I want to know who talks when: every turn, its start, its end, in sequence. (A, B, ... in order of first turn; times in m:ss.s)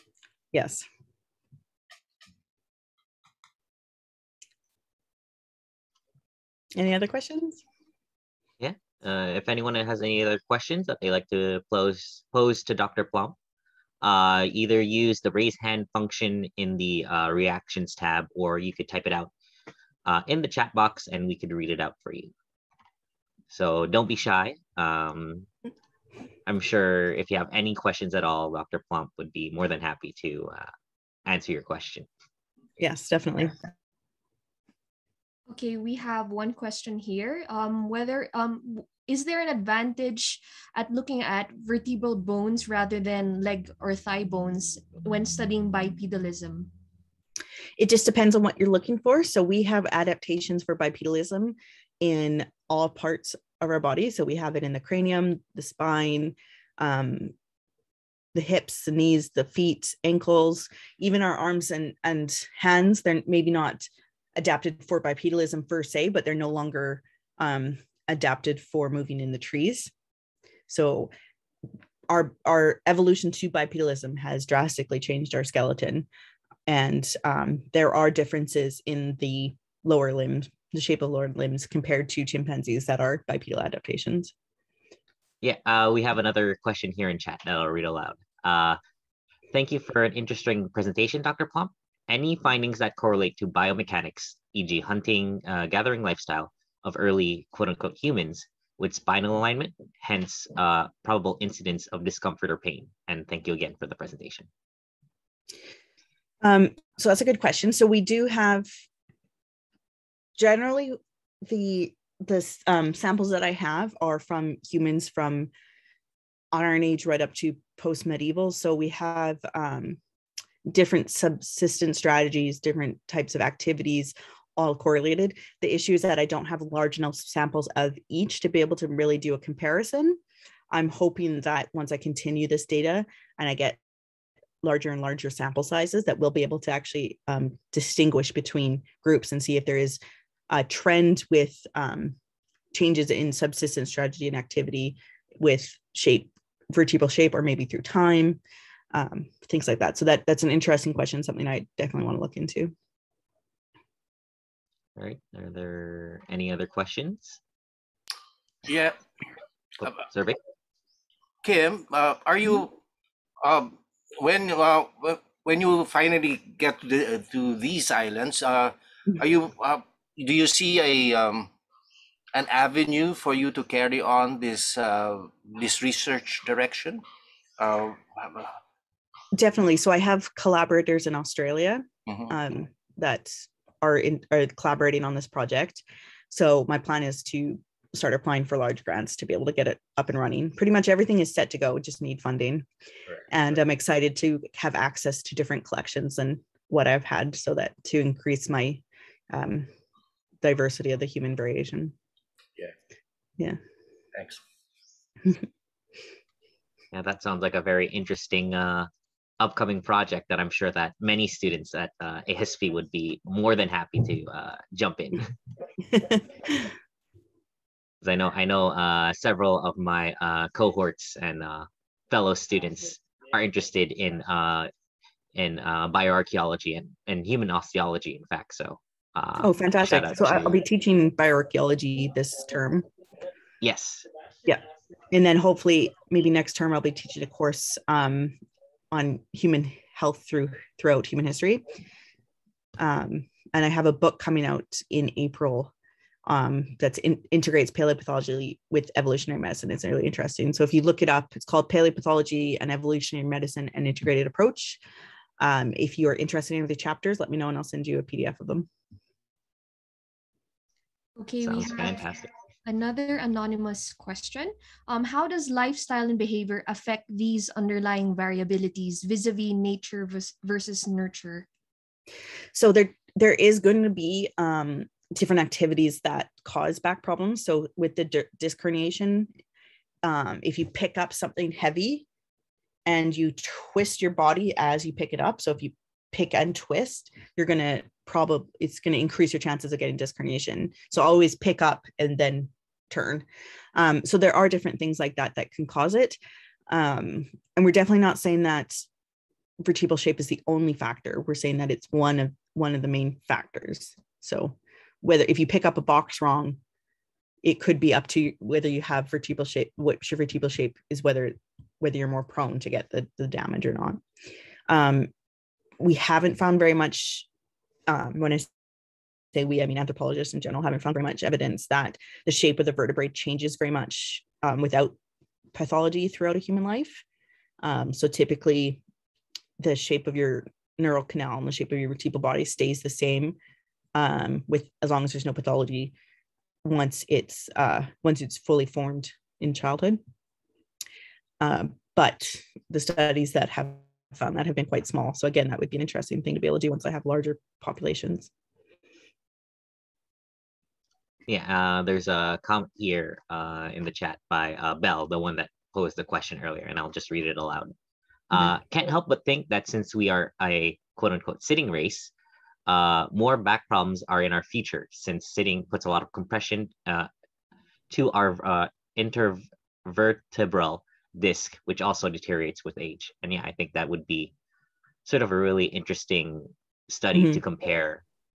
0:00.5-0:00.8 A
0:06.8-0:07.6 A
0:08.6-0:13.4 B
0:14.0-0:19.3 B
0:20.0-0:22.3 B
0:23.5-0:25.5 B
0:26.5-0:30.7 B
0:31.3-0:32.1 B
0:32.8-0:33.5 A
0:35.5-0:46.7 C
0:47.8-0:57.3 A
0:58.3-1:09.9 A
1:10.7-1:11.1 A
1:12.1-1:16.1 A
1:16.7-1:24.3 A
1:25.4-1:28.8 B
1:29.5-1:44.5 B
1:46.4-1:48.7 A
1:50.4-1:55.5 A
1:56.5-2:00.0 A
2:00.7-2:10.2 A
2:10.7-2:13.8 A
2:14.6-2:20.0 A
2:20.5-2:22.2 A
2:22.7-2:28.4 A
2:28.9-2:32.7 A
2:35.0-2:37.4 B
2:38.6-2:39.0 D
2:39.8-2:40.4 B
2:41.4-2:42.8 D
2:43.4-2:51.5 D
2:52.3-2:57.0 D
2:57.6-2:58.5 D
2:59.3-3:12.7 A
3:13.3-3:19.7 A
3:20.4-3:22.0 A
3:24.2-3:24.4 D
3:26.9-3:28.9 B
3:29.4-3:35.3 B
3:38.0-3:44.7 B
3:45.4-3:50.6 B
3:49.4-3:52.9 A
3:53.6-3:54.1 B
3:54.5-3:58.4 A
3:58.9-4:01.6 A
4:02.8-4:05.7 A
4:06.3-4:14.8 A
4:15.4-4:18.7 A
4:21.2-4:31.5 C
4:21.4-4:22.3 B
4:32.5-4:39.3 A
4:40.0-4:42.1 A
4:42.9-4:56.2 A
4:56.7-4:58.9 A
4:59.6-5:06.6 A
5:07.4-5:14.0 A
5:14.7-5:15.1 A
5:15.8-5:17.3 A
5:17.9-5:18.5 A
5:19.3-5:25.0 A
5:25.5-5:27.0 A
5:27.6-5:28.8 A
5:29.6-5:33.4 A
5:34.0-5:36.0 A
5:36.6-5:40.0 A
5:41.4-5:48.3 A
5:51.3-5:57.7 B
5:58.3-6:02.1 B
6:02.7-6:07.1 B
6:07.9-6:14.3 B
6:15.1-6:18.0 B
6:17.1-6:17.4 A